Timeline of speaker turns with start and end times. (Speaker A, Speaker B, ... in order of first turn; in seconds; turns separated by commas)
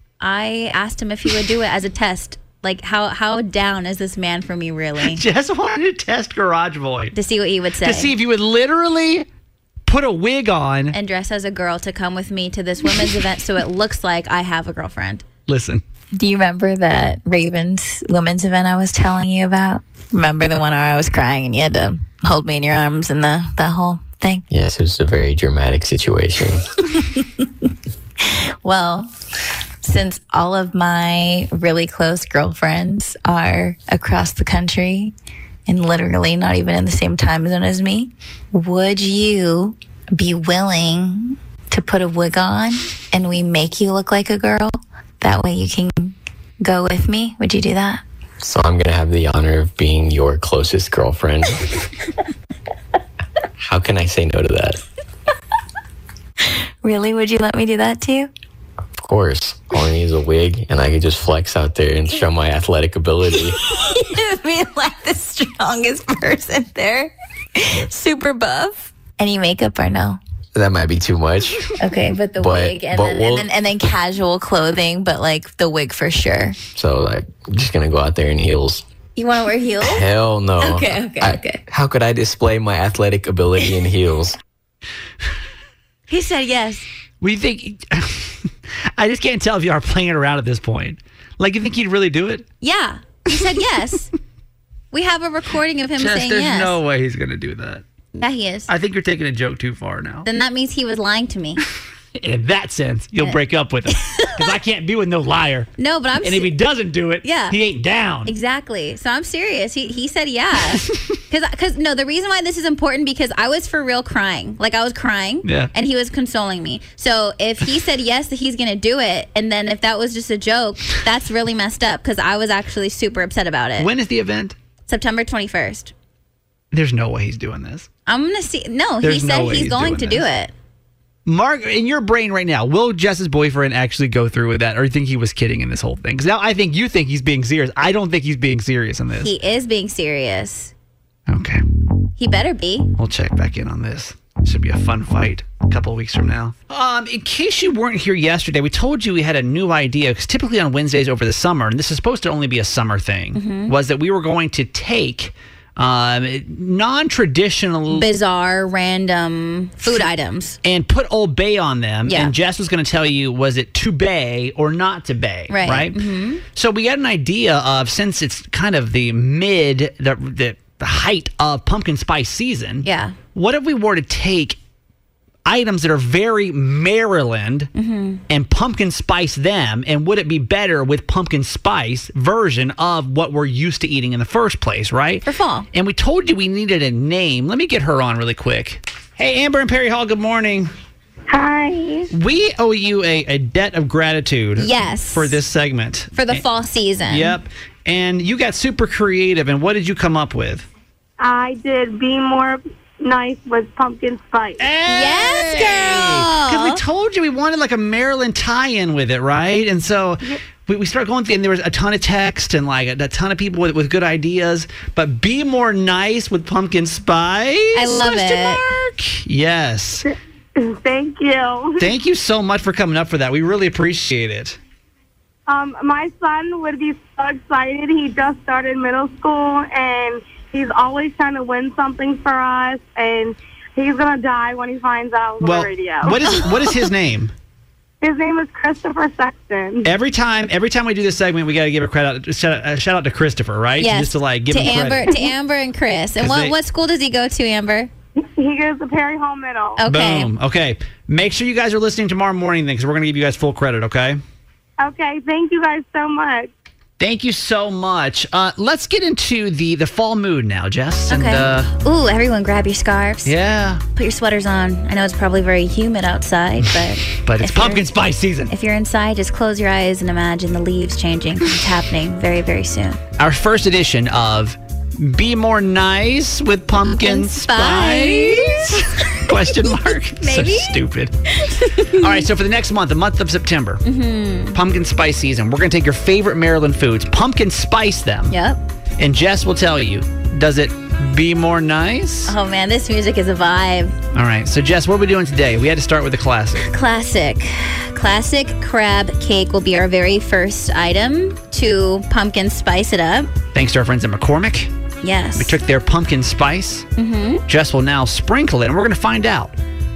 Speaker A: 0.2-5.2, Speaker B: 5.0-7.1, Speaker A: 7.1-8.1, Speaker B: 7.8-9.2, Speaker B: 9.8-10.9, Speaker A: 10.9-15.2, Speaker B: 15.5-15.8, Speaker C: 16.1-24.4, Speaker D: 24.5-26.6, Speaker C: 27.0-27.4, Speaker C: 28.2-29.1, Speaker C: 29.8-35.1, Speaker C: 35.7-48.0, Speaker D: 48.4-51.5, Speaker D: 53.6-54.8, Speaker C: 56.8-58.3, Speaker D: 59.0-63.5, Speaker C: 63.3-70.2, Speaker D: 70.5-71.7, Speaker C: 71.8-76.6, Speaker D: 72.4-73.5, Speaker A: 72.5-73.2, Speaker D: 76.7-78.8, Speaker C: 79.2-80.1, Speaker D: 79.8-84.4, Speaker C: 80.6-81.6, Speaker A: 86.1-86.8, Speaker B: 87.2-92.4, Speaker A: 92.6-94.1, Speaker A: 94.9-96.8, Speaker B: 96.0-97.8, Speaker A: 98.1-98.7, Speaker B: 98.7-100.3, Speaker A: 100.2-101.6, Speaker B: 102.2-108.3, Speaker A: 103.9-104.3, Speaker A: 105.8-106.5, Speaker A: 107.2-107.5, Speaker A: 108.2-123.9, Speaker B: 115.4-115.7, Speaker B: 123.8-124.5, Speaker A: 124.9-125.9, Speaker B: 126.7-127.9, Speaker A: 128.1-130.5, Speaker B: 129.0-130.2, Speaker B: 131.2-139.3, Speaker A: 139.2-140.7, Speaker B: 141.3-141.6, Speaker A: 142.2-142.9, Speaker B: 142.9-158.1, Speaker A: 153.3-153.7, Speaker A: 157.9-160.6, Speaker B: 160.6-166.0, Speaker A: 162.1-162.3, Speaker A: 165.5-166.4, Speaker B: 166.5-174.6, Speaker A: 172.8-173.2, Speaker B: 175.4-177.7, Speaker A: 177.7-178.2, Speaker B: 178.3-190.7, Speaker A: 185.2-185.7, Speaker E: 191.3-192.1, Speaker B: 192.1-196.4, Speaker A: 194.6-195.4, Speaker A: 196.1-197.3, Speaker B: 197.1-200.7, Speaker E: 201.2-204.7, Speaker B: 204.6-220.0, Speaker A: 204.9-206.8, Speaker A: 217.7-218.6, Speaker E: 220.1-221.9, Speaker B: 221.8-224.6, Speaker E: 225.5-236.3, Speaker B: 235.4-237.3, Speaker E: 238.0-239.9, Speaker B: 239.8-245.2, Speaker A: 243.8-247.9, Speaker B: 246.2-246.5, Speaker E: 248.2-249.8, Speaker A: 249.8-250.3, Speaker B: 249.8-254.2, Speaker E: 254.8-256.5, Speaker B: 257.0-261.7, Speaker A: 261.1-263.3, Speaker B: 263.2-263.8, Speaker A: 263.9-267.9, Speaker B: 267.0-268.5, Speaker A: 268.5-273.0, Speaker B: 273.2-281.1, Speaker A: 276.9-280.8, Speaker A: 281.4-282.2, Speaker B: 281.8-283.8, Speaker A: 283.8-284.6, Speaker B: 284.5-288.3, Speaker A: 288.3-288.6, Speaker B: 289.0-292.3, Speaker A: 292.3-293.9, Speaker B: 294.1-296.6, Speaker A: 296.6-303.3, Speaker B: 303.5-304.7, Speaker A: 305.0-305.6, Speaker B: 305.4-306.9, Speaker A: 306.9-307.4, Speaker B: 307.5-309.5